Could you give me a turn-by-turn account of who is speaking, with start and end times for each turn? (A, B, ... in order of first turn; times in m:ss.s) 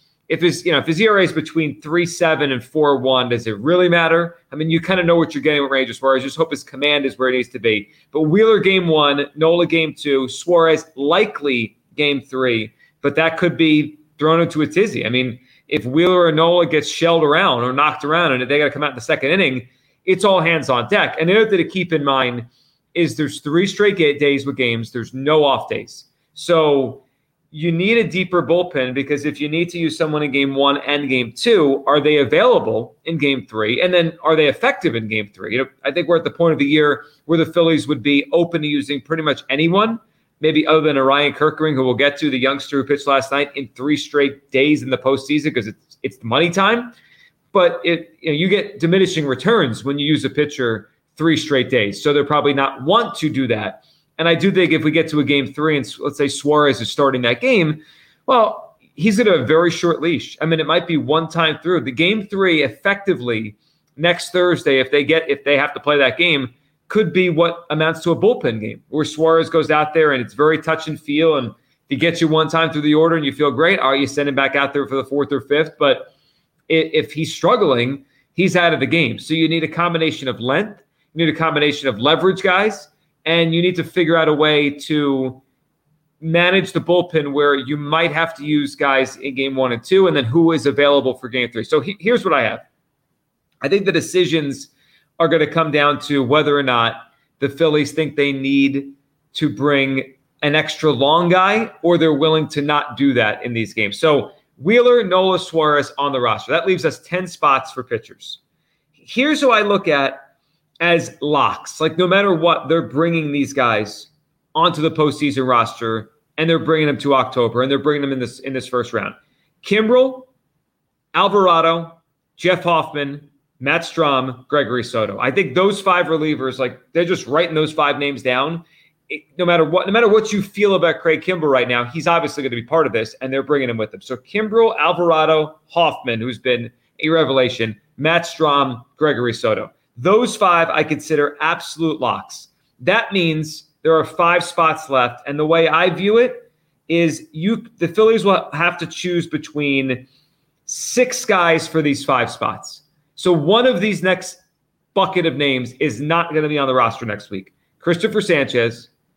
0:00.3-0:46.9 A
0:47.5-1:16.1 A
1:16.7-1:25.4 A
1:26.2-1:32.6 A
1:33.6-1:48.4 A
1:49.0-1:50.2 A
1:50.8-2:00.3 A
2:01.1-2:30.1 A
2:30.6-2:34.4 A
2:34.9-2:38.9 A